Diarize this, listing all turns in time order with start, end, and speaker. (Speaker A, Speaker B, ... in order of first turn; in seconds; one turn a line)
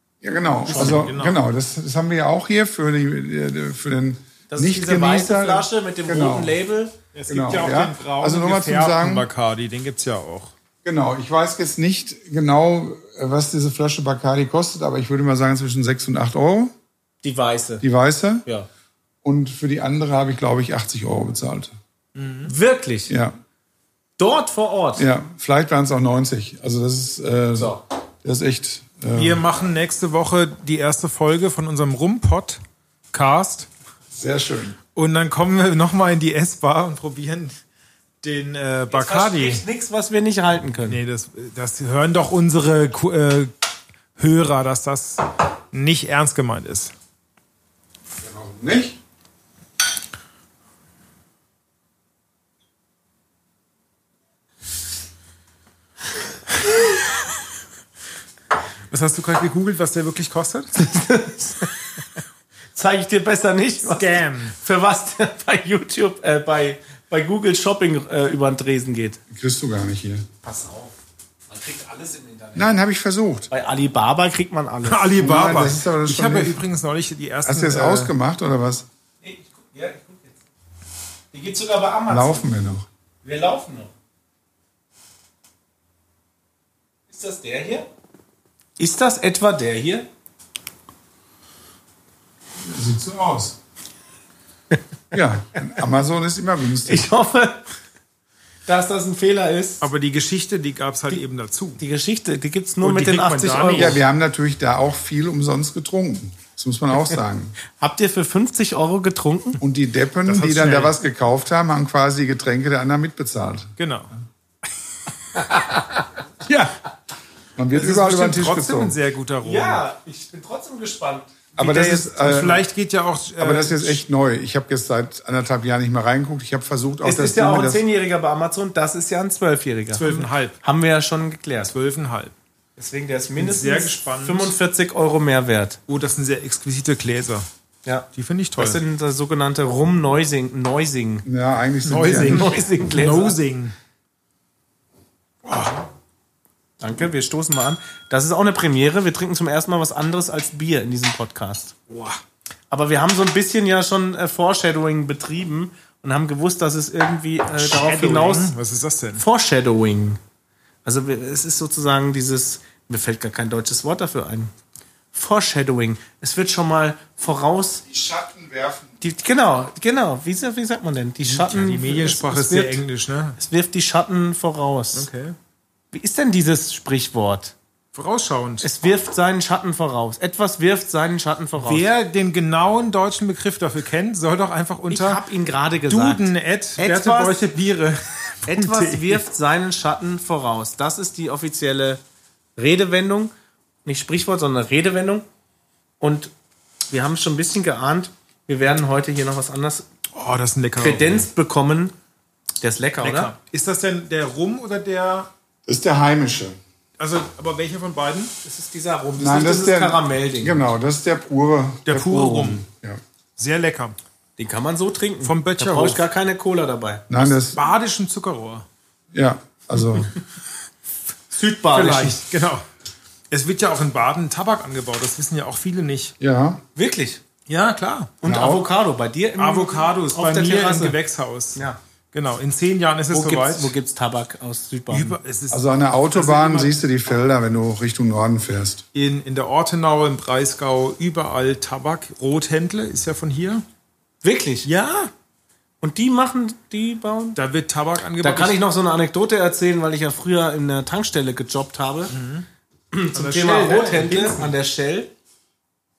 Speaker A: 0.2-6.5
Speaker B: 0.7-1.1
Speaker C: 0.7-1.4
Speaker B: 4.5-6.9
Speaker C: 7.1-10.5
Speaker A: 7.3-9.3
Speaker A: 10.8-16.7
Speaker B: 17.2-17.8
Speaker A: 17.8-18.4
Speaker A: 19.2-21.7
Speaker C: 22.1-22.5
Speaker B: 22.4-23.1
Speaker A: 23.1-23.3
Speaker B: 24.2-25.1
Speaker A: 25.0-29.4
Speaker C: 29.1-32.6
Speaker C: 33.1-33.7
Speaker A: 34.1-34.8
Speaker C: 34.9-37.6
Speaker C: 38.2-39.6
Speaker B: 38.9-41.0
Speaker C: 40.9-43.5
Speaker C: 44.2-46.9
Speaker A: 48.2-49.0
Speaker C: 58.9-60.9
Speaker B: 60.7-61.8
Speaker B: 62.7-69.2
Speaker C: 63.8-64.5
Speaker A: 69.3-70.2
Speaker B: 70.4-70.9
Speaker B: 71.5-72.7
Speaker A: 72.5-73.5
Speaker B: 73.5-75.1
Speaker C: 74.8-78.1
Speaker A: 75.2-76.6
Speaker A: 77.4-78.8
Speaker B: 79.2-80.4
Speaker B: 81.3-82.5
Speaker A: 82.1-82.8
Speaker B: 83.2-83.9
Speaker B: 87.1-87.9
Speaker B: 88.8-90.1
Speaker A: 92.6-93.5
Speaker A: 95.1-97.1
Speaker B: 96.8-97.7
Speaker B: 98.7-99.8
Speaker C: 99.8-101.8
Speaker B: 101.8-104.0
Speaker C: 102.8-104.0
Speaker A: 103.7-107.6
Speaker B: 107.7-109.6
Speaker A: 109.6-113.7
Speaker C: 110.2-111.0
Speaker C: 113.8-114.1
Speaker A: 116.4-116.7
Speaker A: 117.5-119.0
Speaker C: 117.7-119.8
Speaker B: 119.4-121.9
Speaker A: 121.6-122.6
Speaker C: 121.6-124.0
Speaker A: 123.4-127.8
Speaker B: 127.0-131.7
Speaker C: 129.9-130.6
Speaker C: 131.6-132.3
Speaker B: 132.8-135.8
Speaker C: 133.4-134.5
Speaker C: 135.9-137.4
Speaker B: 137.8-141.3
Speaker C: 138.1-138.8
Speaker A: 141.2-142.6
Speaker C: 141.8-143.7
Speaker B: 142.0-143.4
Speaker C: 145.4-145.8
Speaker B: 146.8-151.7
Speaker C: 151.9-152.2
Speaker B: 152.7-158.5
Speaker C: 157.6-159.2
Speaker B: 159.1-160.2
Speaker B: 160.8-164.5
Speaker B: 165.1-167.8
Speaker A: 167.8-169.0
Speaker B: 169.0-172.8
Speaker C: 171.2-173.4
Speaker B: 173.4-175.1
Speaker C: 174.9-175.3
Speaker B: 175.9-177.5
Speaker C: 177.9-178.7
Speaker B: 178.6-181.8
Speaker C: 181.6-185.2
Speaker B: 184.9-187.4
Speaker C: 185.9-189.2
Speaker B: 188.4-192.0
Speaker B: 192.6-193.3
Speaker B: 193.8-195.2
Speaker B: 196.0-196.3
Speaker B: 196.9-199.8
Speaker C: 200.1-201.3
Speaker B: 200.8-201.9
Speaker B: 202.6-203.3
Speaker C: 203.0-205.3
Speaker A: 205.7-206.6
Speaker C: 207.0-208.3
Speaker B: 208.4-210.6
Speaker A: 209.2-213.0
Speaker C: 211.8-212.6
Speaker C: 213.4-214.0
Speaker B: 214.4-217.0
Speaker C: 215.2-216.1
Speaker A: 217.1-217.6
Speaker C: 217.2-218.7
Speaker A: 219.1-220.1
Speaker B: 221.3-222.2
Speaker C: 221.7-222.6
Speaker C: 223.3-226.1
Speaker A: 226.2-226.6
Speaker B: 226.8-227.2
Speaker C: 227.5-228.1
Speaker B: 228.2-231.0
Speaker A: 228.2-228.6
Speaker C: 229.4-233.7
Speaker B: 233.1-235.2
Speaker C: 234.9-236.8
Speaker A: 235.5-238.8
Speaker C: 238.9-243.6
Speaker B: 244.2-244.7
Speaker C: 244.6-245.1
Speaker B: 245.8-247.4
Speaker C: 247.3-248.6
Speaker B: 248.2-252.1
Speaker C: 252.1-252.5
Speaker B: 252.9-255.1
Speaker C: 253.1-254.5